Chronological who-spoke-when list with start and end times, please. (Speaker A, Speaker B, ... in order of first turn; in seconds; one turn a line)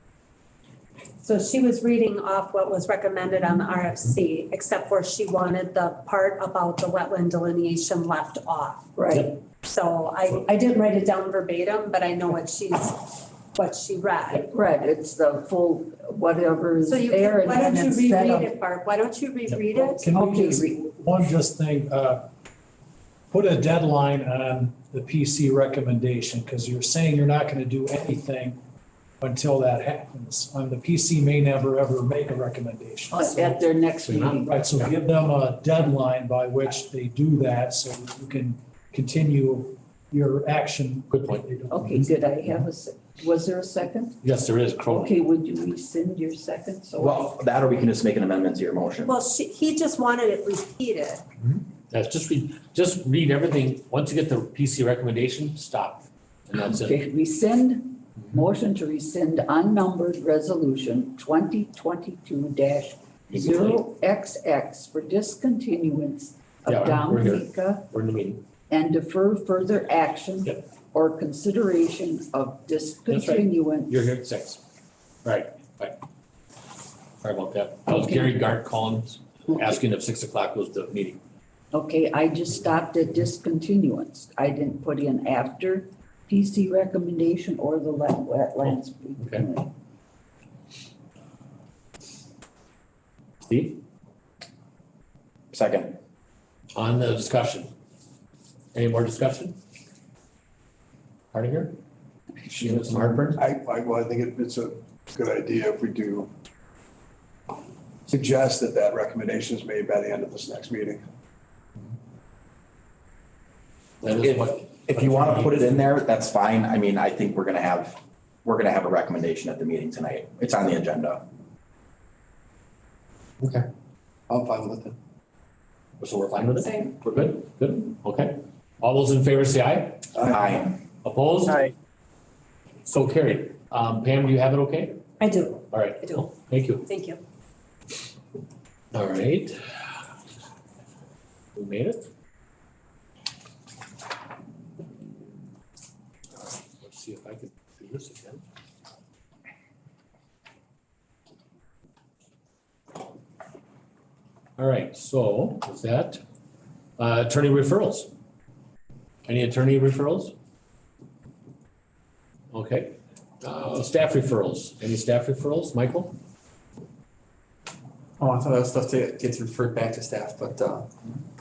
Speaker A: 1.2-8.9
Speaker B: 9.0-9.3
Speaker A: 9.4-14.5
Speaker B: 14.5-18.5
Speaker A: 16.9-20.1
Speaker C: 19.5-22.2
Speaker B: 20.1-20.8
Speaker C: 23.3-28.6
Speaker C: 29.2-33.4
Speaker B: 33.1-34.6
Speaker D: 33.4-34.9
Speaker C: 34.5-42.0
Speaker D: 41.1-42.0
Speaker B: 41.7-44.2
Speaker D: 44.2-45.1
Speaker B: 44.9-47.4
Speaker E: 47.0-49.2
Speaker A: 49.1-51.2
Speaker D: 51.5-57.0
Speaker B: 56.5-67.9
Speaker D: 63.3-63.8
Speaker D: 66.7-68.4
Speaker B: 68.7-74.0
Speaker D: 73.1-74.6
Speaker D: 75.2-76.0
Speaker D: 77.2-81.2
Speaker B: 77.9-78.4
Speaker B: 81.7-89.7
Speaker D: 88.6-89.4
Speaker D: 93.5-93.8
Speaker E: 95.5-96.0
Speaker D: 96.8-97.7
Speaker D: 98.7-99.6
Speaker D: 101.3-101.8
Speaker D: 102.5-103.4
Speaker F: 103.4-106.3
Speaker F: 108.1-111.0
Speaker D: 114.0-115.9
Speaker E: 114.2-121.2
Speaker D: 126.0-130.1
Speaker E: 130.2-130.8
Speaker D: 131.0-131.7
Speaker D: 132.9-135.0
Speaker A: 135.2-136.3
Speaker D: 135.7-136.9
Speaker A: 136.9-137.2
Speaker D: 138.9-139.6
Speaker D: 141.6-142.0
Speaker D: 146.4-148.4
Speaker D: 154.6-156.2
Speaker D: 157.0-158.1
Speaker D: 159.2-160.3
Speaker D: 162.5-166.2
Speaker G: 168.2-170.9